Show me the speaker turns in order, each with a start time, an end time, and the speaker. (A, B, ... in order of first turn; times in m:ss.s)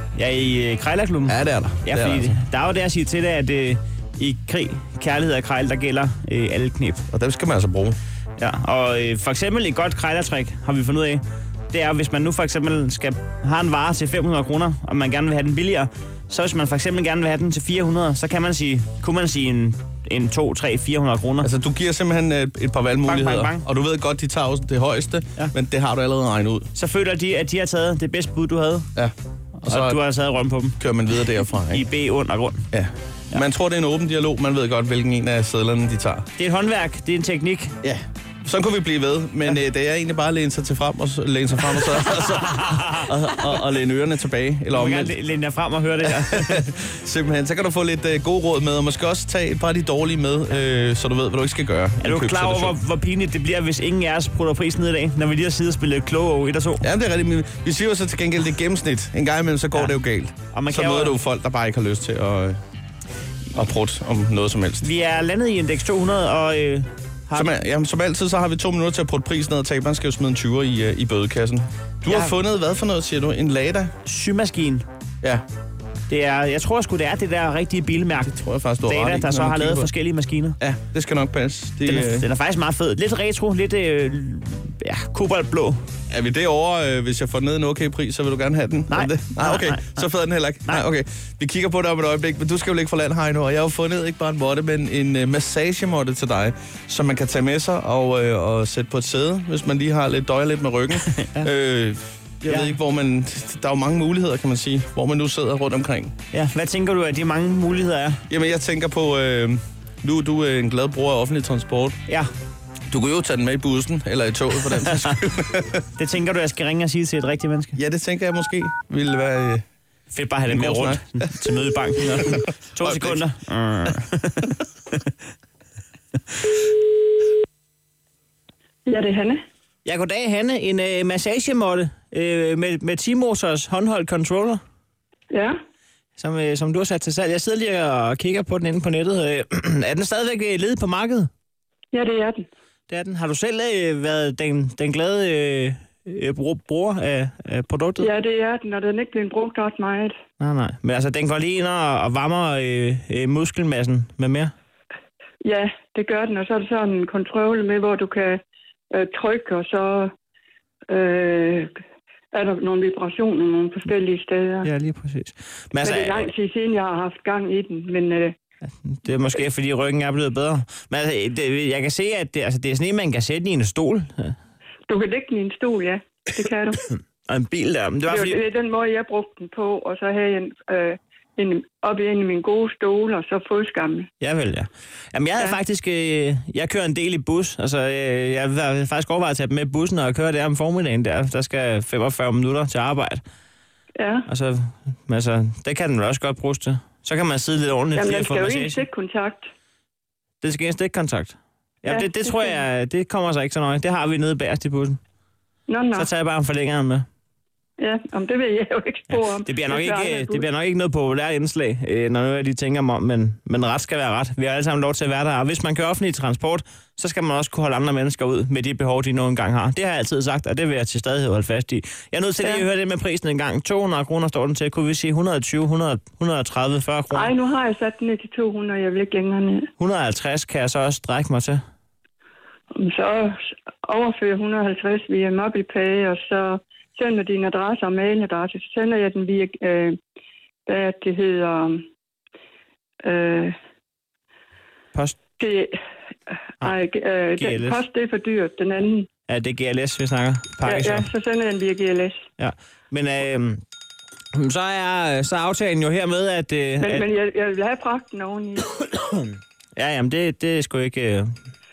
0:00.1-0:07.0 A
0:01.3-0:02.4 B
0:07.1-0:08.0 B
0:08.4-0:21.5 A
0:21.4-0:26.7 B
0:23.0-0:23.6 A
0:26.7-0:28.9 A
0:29.0-0:30.0 B
0:29.6-0:30.8 A
0:30.8-0:31.8 B
0:31.7-0:32.7 A
0:32.7-0:36.2 B
0:36.4-0:37.8 A
0:37.8-0:45.2 B
0:42.3-0:43.1 A
0:44.7-0:46.6 A
0:46.0-0:52.8 B
0:52.0-0:56.8 A
0:56.8-1:02.6 B
1:00.5-1:01.2 A
1:03.5-1:04.9 B
1:04.8-1:07.5 A
1:07.3-1:13.9 B
1:12.1-1:12.4 A
1:14.0-1:14.8 A
1:16.1-1:20.6 A
1:18.2-1:19.9 B
1:20.6-1:22.3 B
1:21.8-1:25.8 A
1:26.1-1:46.1 B
1:28.9-1:30.0 A
1:41.2-1:41.5 A
1:42.4-1:42.7 A
1:46.3-1:48.2 A
1:48.3-1:52.0 B
1:52.9-1:55.8 B
1:56.0-1:57.8 A
1:57.8-1:59.6 B
2:00.1-2:04.5 A
2:00.5-2:01.3 B
2:02.2-2:03.2 B
2:08.8-2:09.4 C
2:09.8-2:14.6 A
2:16.2-2:21.3 A
2:21.9-2:22.4 C
2:22.9-2:28.1 A
2:28.0-2:30.1 C
2:30.4-2:34.5 A
2:35.4-2:38.4 C
2:38.9-2:40.1 C
2:40.9-2:41.7 C
2:42.3-2:44.7 C
2:44.6-2:46.2 A
2:45.8-2:48.3 C
2:48.8-2:54.4 A
2:54.9-2:56.8 C
2:56.9-2:58.4 A
2:58.1-3:04.1 C
3:04.2-3:13.2 A
3:14.0-3:14.2 C
3:14.3-3:18.8 A
3:17.9-3:19.5 C
3:20.4-3:25.0 A
3:21.9-3:22.6 C
3:25.7-3:26.1 C
3:25.9-3:27.0 A
3:27.8-3:30.4 C
3:29.4-3:47.3 A
3:47.1-3:49.7 C
3:49.8-3:51.6 A
3:52.8-4:00.0 C
4:00.7-4:01.8 C
4:03.0-4:03.5 C
4:05.4-4:05.7 C
4:06.6-4:09.1 C
4:07.4-4:07.8 A
4:09.3-4:11.1 A
4:10.6-4:12.2 C
4:12.4-4:13.6 A
4:14.3-4:17.1 A
4:16.8-4:18.7 C
4:19.0-4:21.4 A